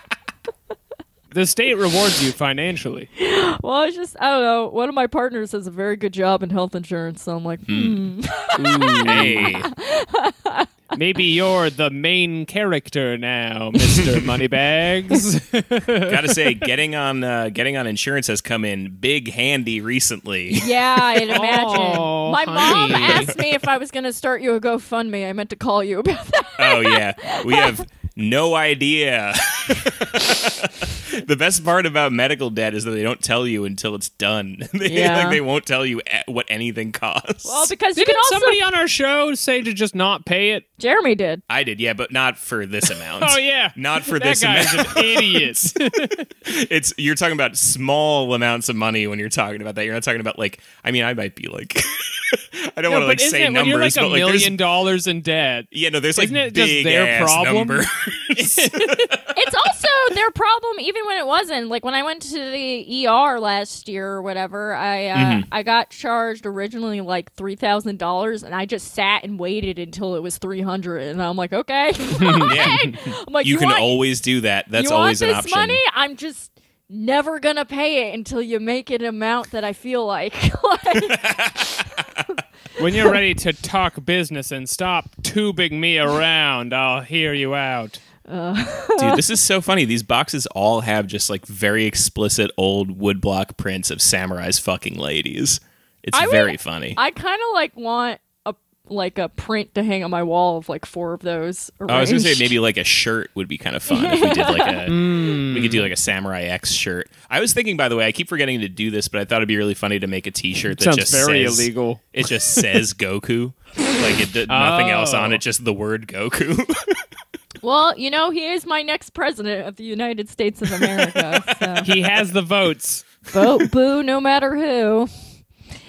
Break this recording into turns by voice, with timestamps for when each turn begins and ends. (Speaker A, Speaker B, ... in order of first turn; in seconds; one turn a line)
Speaker A: 1.3-3.1
Speaker B: 3.2-10.7
Speaker C: 7.7-8.0
Speaker A: 8.6-9.5
Speaker C: 8.6-9.7
Speaker A: 10.9-16.4
Speaker C: 16.1-21.0
Speaker B: 20.5-27.8
Speaker A: 21.3-23.3
Speaker C: 23.0-23.3
Speaker C: 26.6-37.7
Speaker B: 34.9-35.4
Speaker B: 37.4-38.6
Speaker A: 38.0-40.7
Speaker B: 40.8-41.4
Speaker C: 41.5-45.8
Speaker A: 43.2-46.3
Speaker C: 46.4-54.6
Speaker A: 52.9-59.1
Speaker C: 55.7-59.3
Speaker B: 59.3-74.0
Speaker C: 65.1-65.5
Speaker A: 72.2-72.7
Speaker C: 72.4-75.8
Speaker B: 74.7-82.0
Speaker C: 81.0-82.2
Speaker A: 82.8-88.0
Speaker B: 88.3-89.3
Speaker C: 89.0-97.0
Speaker B: 96.1-102.6
Speaker C: 101.9-117.0
Speaker B: 103.9-104.8
Speaker A: 104.9-105.9
Speaker A: 110.7-112.7
Speaker A: 114.5-115.4
Speaker B: 117.6-121.9
Speaker C: 120.8-122.0
Speaker A: 121.8-123.1
Speaker B: 123.3-125.1